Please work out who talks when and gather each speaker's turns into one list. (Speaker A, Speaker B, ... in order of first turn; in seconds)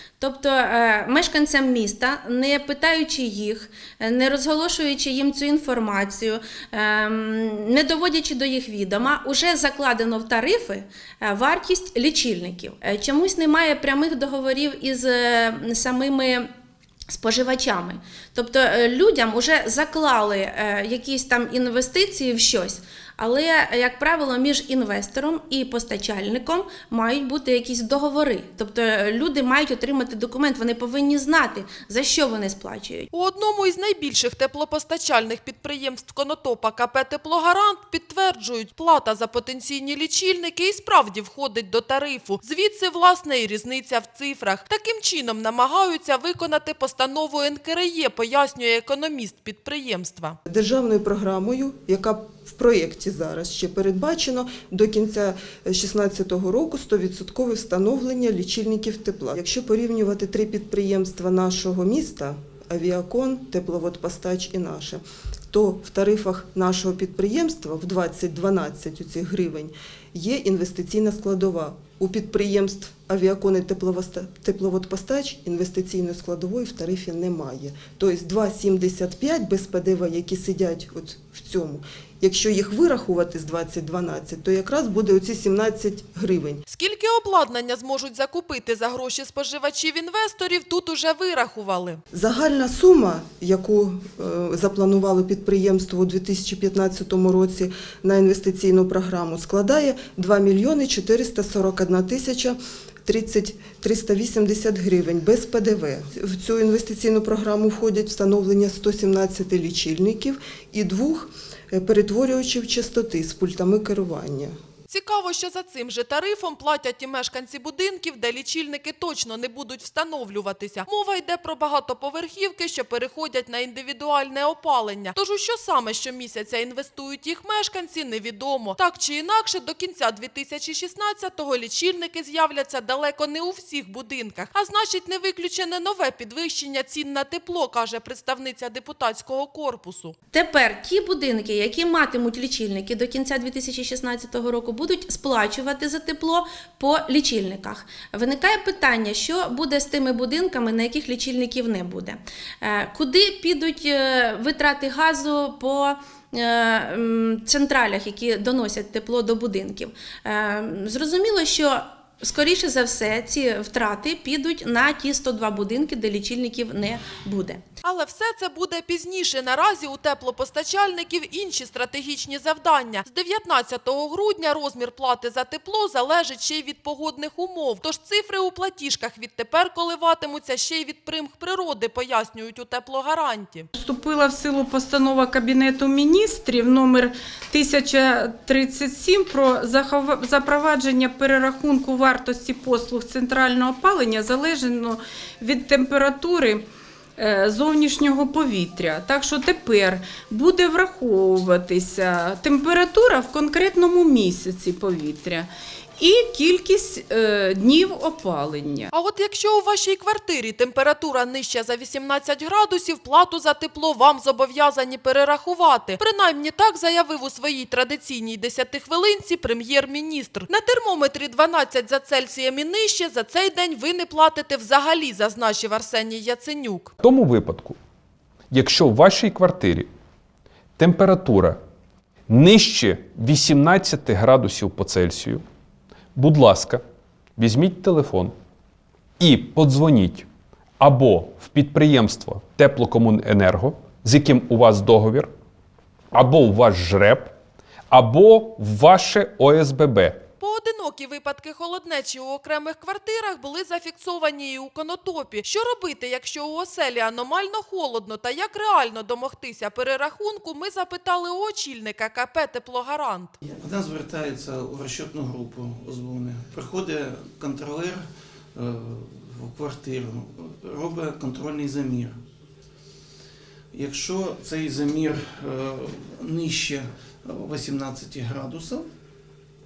Speaker A: 0.2-16.5, 17.1-33.1, 140.3-167.6
Speaker B: 33.1-50.4, 86.7-92.0, 114.9-140.2, 167.8-183.7, 208.9-226.9, 250.4-263.3
Speaker C: 50.5-86.6, 92.1-114.5
Speaker D: 183.8-196.6, 197.2-208.9
Speaker E: 227.0-227.8, 228.5-229.9, 230.8-231.6, 232.3-235.4, 236.2-236.8, 237.4-238.3, 239.2-240.3, 240.8-245.3, 246.1-247.3, 247.9-250.2
Speaker F: 263.5-272.2, 273.7-278.9